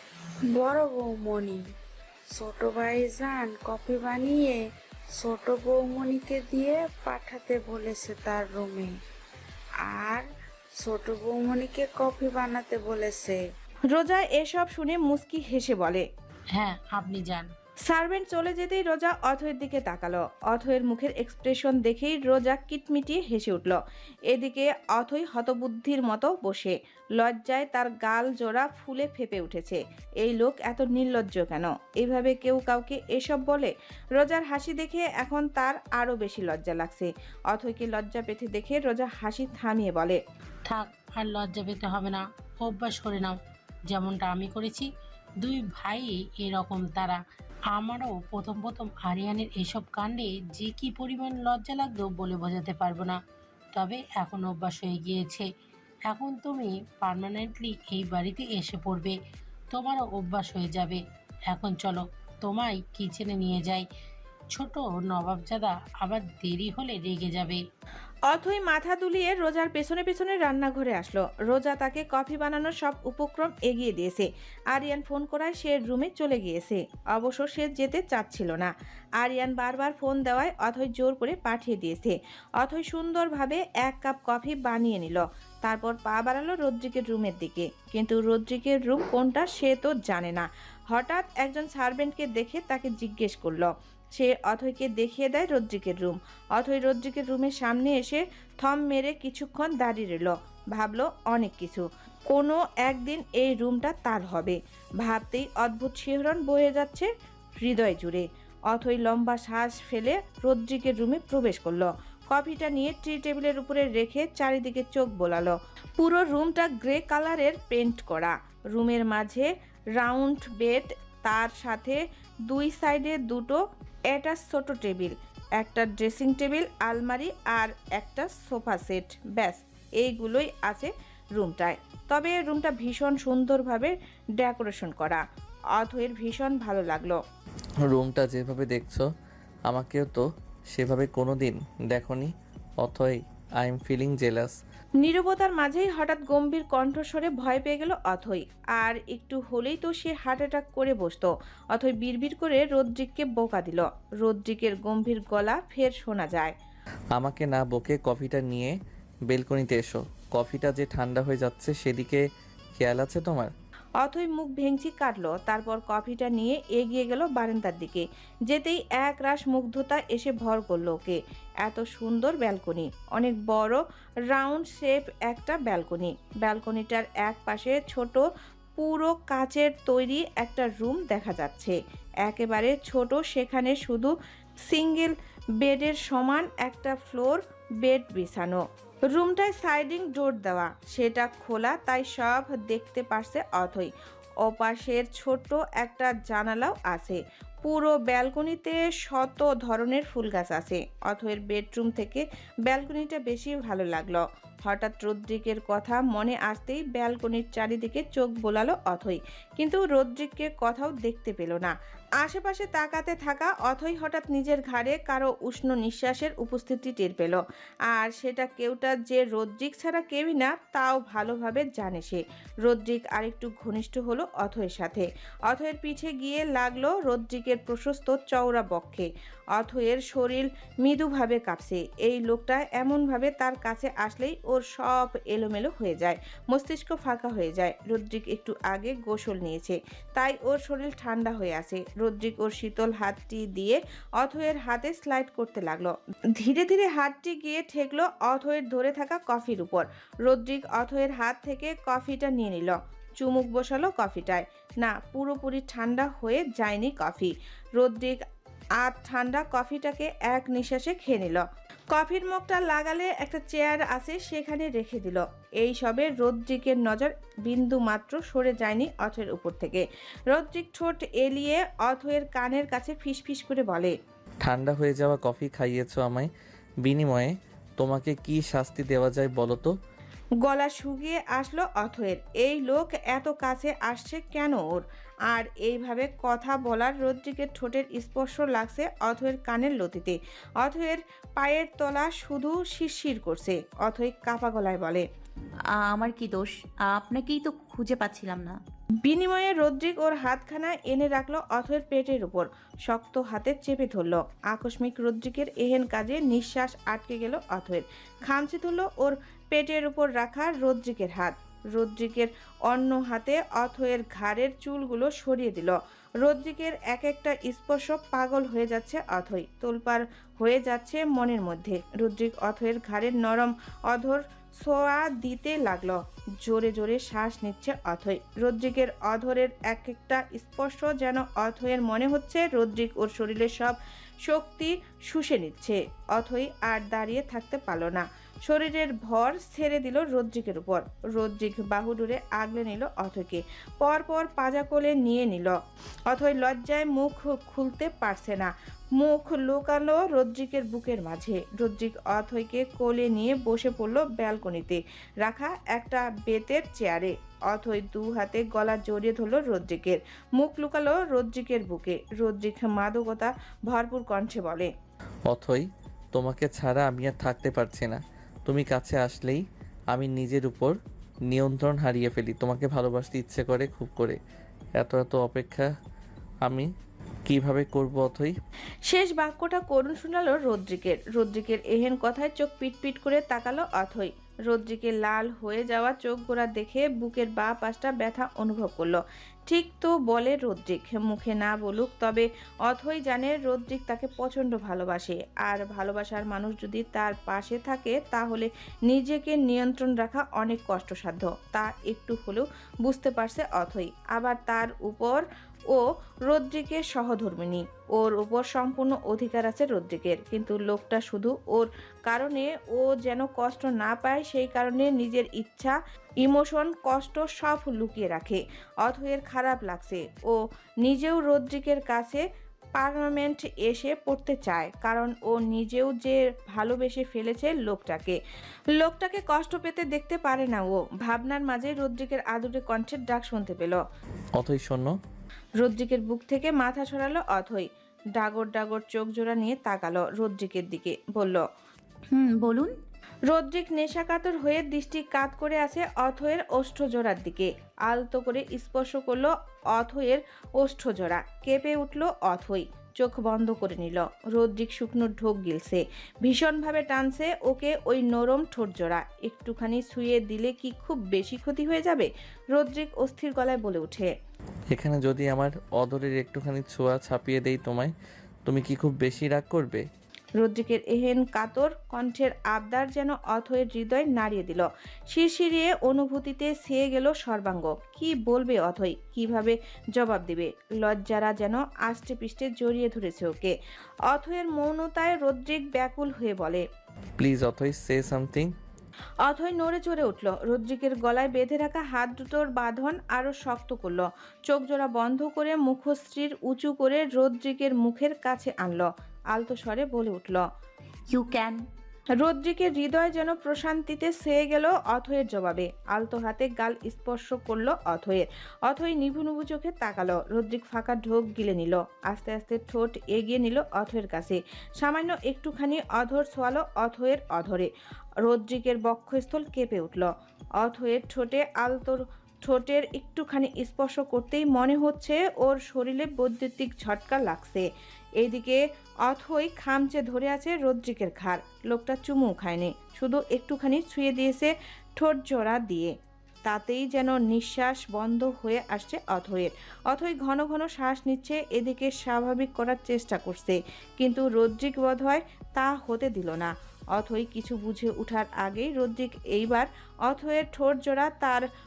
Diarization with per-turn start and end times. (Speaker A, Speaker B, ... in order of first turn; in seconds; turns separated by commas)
Speaker A: 0.5-1.6, Speaker A: 2.4-4.5, Speaker A: 5.2-8.9, Speaker A: 9.9-10.2, Speaker A: 10.8-13.4, Speaker B: 13.9-16.0, Speaker C: 16.6-17.5, Speaker B: 17.9-23.8, Speaker B: 24.3-40.2, Speaker C: 40.7-43.4, Speaker C: 43.9-44.9, Speaker C: 45.4-47.2, Speaker C: 47.7-53.2, Speaker C: 53.7-55.5, Speaker C: 56.1-59.1, Speaker C: 59.7-63.9, Speaker C: 64.5-67.6, Speaker B: 68.3-107.1, Speaker B: 107.6-122.0, Speaker B: 122.5-123.6, Speaker B: 124.1-135.2, Speaker B: 135.8-137.2, Speaker D: 137.9-139.1, Speaker D: 139.7-144.6, Speaker B: 145.0-156.5, Speaker D: 157.2-158.8, Speaker D: 159.3-162.2, Speaker D: 162.8-163.5, Speaker B: 164.0-173.8, Speaker B: 174.3-178.2, Speaker B: 178.8-184.1, Speaker B: 184.7-188.6, Speaker B: 189.1-193.9, Speaker B: 194.4-258.2, Speaker B: 258.8-273.9, Speaker D: 274.4-276.3, Speaker D: 276.8-279.7, Speaker B: 280.4-295.0, Speaker E: 295.8-298.6, Speaker B: 299.0-345.6, Speaker B: 346.1-364.7, Speaker D: 365.3-369.4, Speaker D: 369.9-370.8, Speaker D: 371.3-374.2, Speaker D: 374.8-375.7, Speaker D: 376.4-376.7, Speaker D: 377.3-378.3, Speaker B: 378.9-422.2, Speaker B: 422.8-428.2, Speaker B: 428.8-433.8, Speaker D: 434.4-434.9, Speaker B: 435.6-441.4, Speaker E: 442.1-442.7, Speaker B: 443.3-464.1, Speaker D: 464.7-467.9, Speaker D: 468.5-469.9, Speaker B: 470.4-483.6, Speaker B: 484.1-486.6, Speaker D: 487.2-488.5, Speaker B: 489.2-500.4, Speaker E: 501.1-501.6, Speaker B: 502.2-517.7, Speaker B: 518.2-520.1, Speaker B: 520.6-527.6, Speaker B: 528.2-535.9, Speaker B: 536.5-551.5